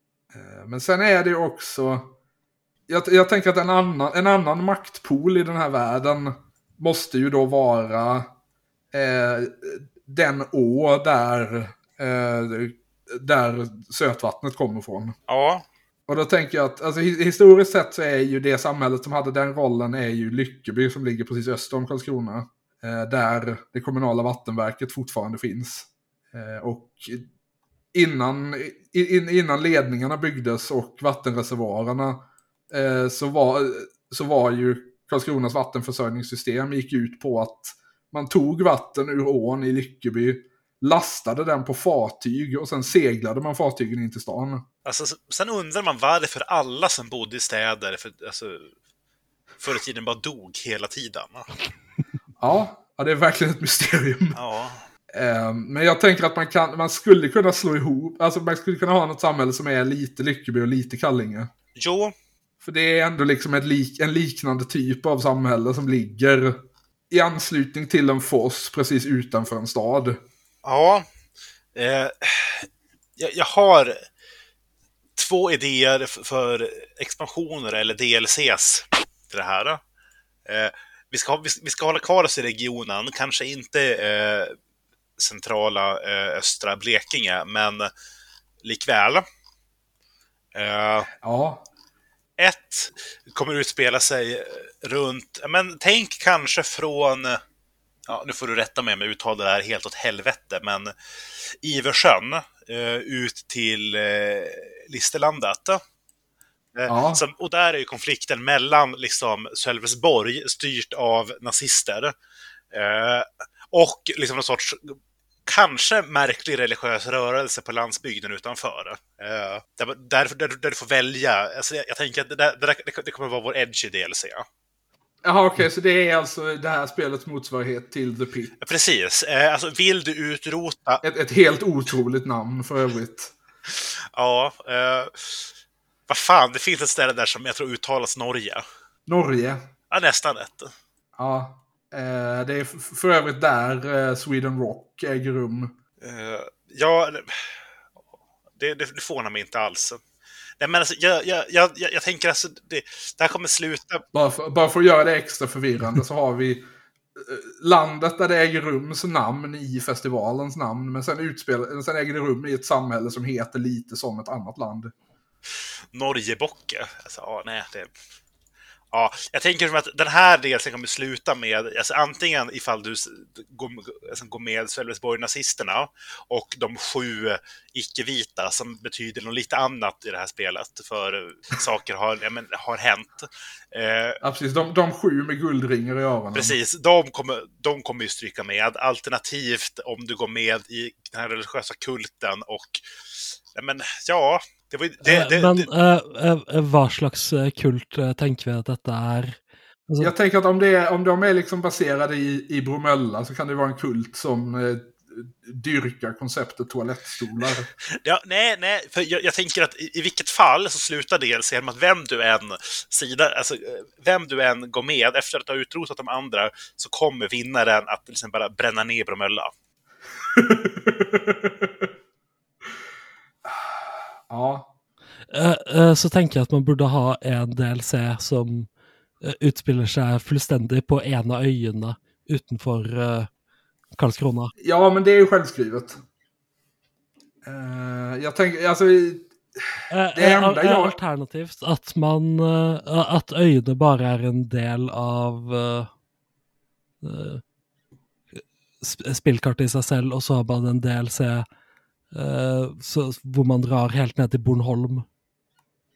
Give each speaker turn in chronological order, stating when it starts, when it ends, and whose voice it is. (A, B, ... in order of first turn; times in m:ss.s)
0:00.3-0:02.1 A
0:02.9-0:08.3 A
0:08.9-0:15.2 A
0:15.3-0:15.6 B
0:16.1-0:27.2 A
0:27.9-0:44.6 A
0:44.8-0:48.7 B
0:49.6-0:51.4 B
0:52.4-0:54.4 A
0:54.3-0:54.8 B
0:55.1-1:01.5 A
1:01.8-1:02.1 B
1:02.6-1:10.2 A
1:10.6-1:11.0 B
1:11.7-1:14.0 B
1:15.2-1:19.8 B
1:20.4-1:24.6 B
1:25.2-1:27.9 B
1:28.6-1:29.2 B
1:30.5-1:31.1 B
1:31.2-1:31.6 A
1:32.4-1:37.4 B
1:38.1-1:45.8 B
1:46.7-1:52.1 B
1:46.9-1:47.2 A
1:52.7-2:04.4 B
2:05.2-2:08.5 A
2:08.6-2:11.0 B
2:11.0-2:13.3 A
2:13.7-2:15.5 B
2:16.1-2:18.6 B
2:19.1-2:19.6 A
2:19.9-2:20.7 B
2:21.2-2:25.8 A
2:26.0-2:27.6 B
2:28.6-2:30.0 B
2:30.6-2:34.0 B
2:34.1-2:44.9 A
2:45.9-2:47.9 B
2:48.9-3:04.2 B
3:04.2-3:06.5 A
3:06.3-3:15.7 B
3:15.0-3:20.1 C
3:20.0-3:27.7 A
3:28.0-3:39.5 B
3:40.2-3:41.9 A
3:43.4-3:44.7 A
3:45.3-3:48.7 C
3:49.2-3:53.3 C
3:53.9-3:54.5 C
3:54.6-3:56.0 A
3:57.4-4:01.0 A
3:59.9-4:05.9 C
4:07.0-4:07.4 C
4:08.8-4:11.4 C
4:12.1-4:15.0 C